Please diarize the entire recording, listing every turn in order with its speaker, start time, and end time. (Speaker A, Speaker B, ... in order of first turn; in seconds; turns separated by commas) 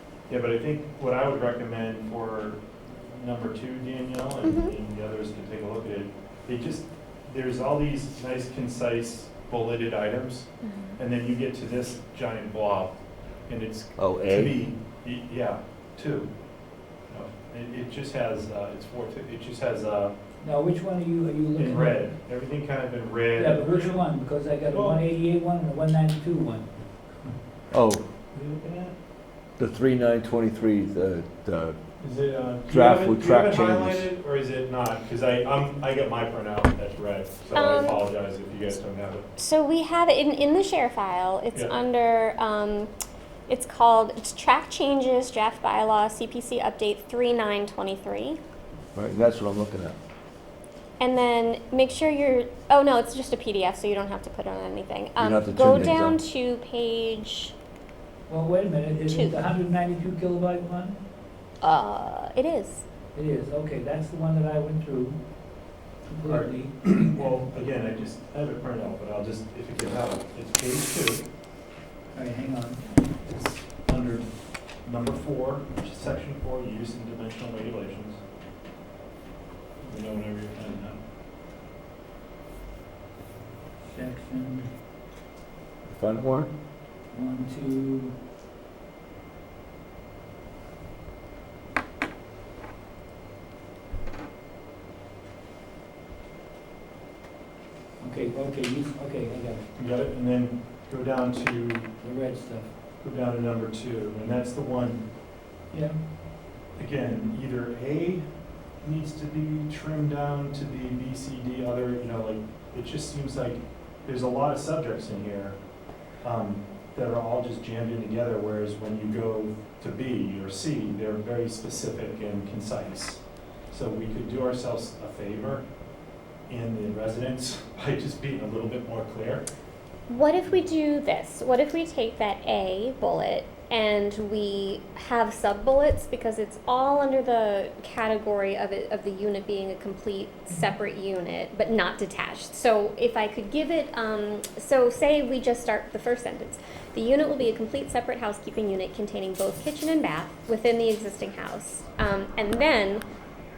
Speaker A: 0.3-16.3, Speaker B: 4.4-4.7, Speaker B: 10.6-11.0, Speaker C: 14.0-14.6, Speaker A: 17.1-20.1, Speaker D: 20.4-22.0, Speaker A: 21.5-24.0, Speaker D: 23.4-27.3, Speaker A: 24.7-25.0, Speaker C: 27.7-28.0, Speaker A: 28.3-28.9, Speaker C: 29.6-31.8, Speaker A: 32.0-39.3, Speaker C: 32.7-34.0, Speaker B: 37.5-38.1, Speaker B: 39.4-42.9, Speaker B: 43.5-48.4, Speaker C: 48.9-50.0, Speaker B: 51.0-57.5, Speaker C: 55.2-56.2, Speaker D: 58.3-61.0, Speaker B: 59.1-59.3, Speaker B: 61.6-62.8, Speaker D: 63.1-67.3, Speaker A: 66.3-71.2, Speaker D: 72.1-72.8, Speaker A: 73.2-78.2, Speaker A: 79.8-81.0, Speaker D: 83.8-84.7, Speaker C: 85.9-86.5, Speaker D: 87.1-88.2, Speaker D: 98.0-99.7, Speaker A: 99.8-101.9, Speaker D: 102.0-102.7, Speaker A: 103.0-105.0, Speaker D: 105.7-106.0, Speaker A: 106.8-108.3, Speaker A: 108.8-115.6, Speaker A: 116.2-125.7, Speaker A: 126.5-129.4, Speaker B: 130.1-153.1